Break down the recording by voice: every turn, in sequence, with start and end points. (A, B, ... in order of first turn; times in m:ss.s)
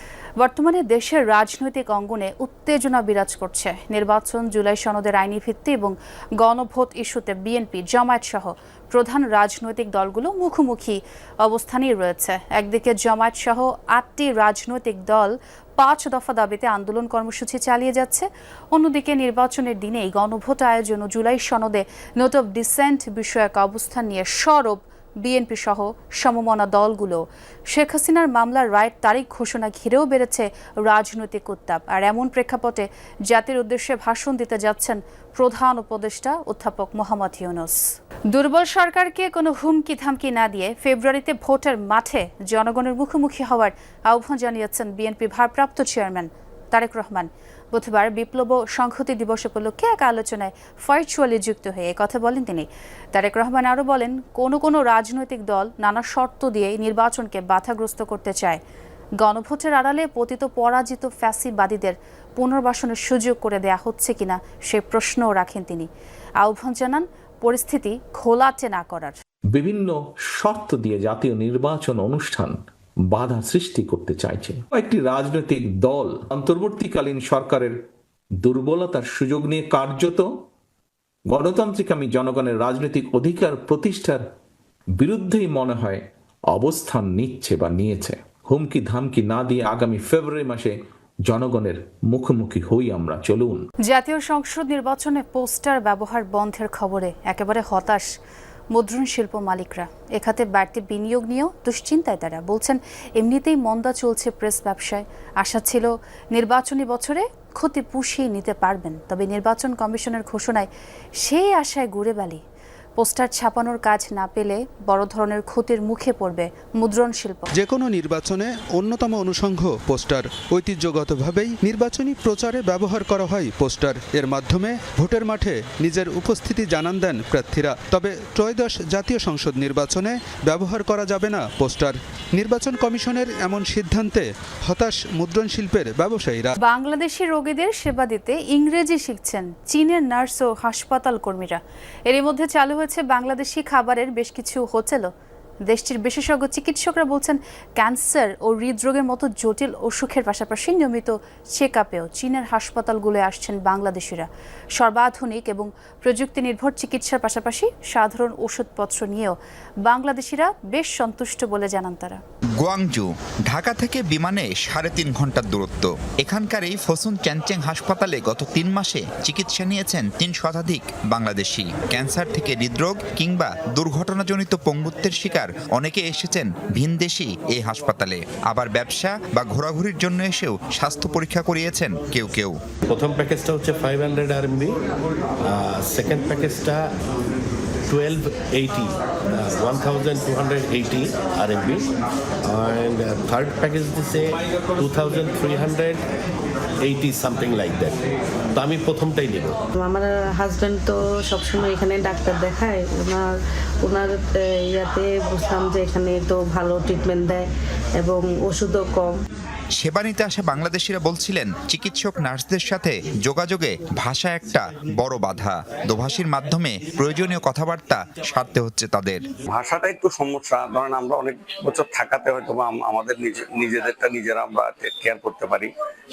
0:00.4-0:58.6 A
0:59.2-1:05.9 A
1:06.4-1:09.2 A
1:09.5-1:12.6 B
1:13.1-1:17.8 B
1:18.4-1:20.3 B
1:21.3-1:24.2 B
1:25.0-1:30.8 B
1:31.3-1:33.6 B
1:33.9-1:38.1 A
1:38.7-1:50.7 A
1:51.2-1:52.4 A
1:53.0-1:57.5 A
1:57.6-2:16.5 C
2:16.6-2:25.1 A
2:25.7-2:42.2 A
2:42.6-3:02.6 D
3:02.9-3:04.7 E
3:05.6-3:06.8 E
3:07.9-3:08.8 E
3:09.4-3:11.8 E
3:12.5-3:14.2 E
3:14.8-3:15.9 E
3:16.9-3:17.9 E
3:18.6-3:19.5 E
3:19.8-3:23.3 F
3:23.8-3:27.4 F
3:28.0-3:29.1 F
3:29.8-3:39.2 D
3:39.5-3:45.7 G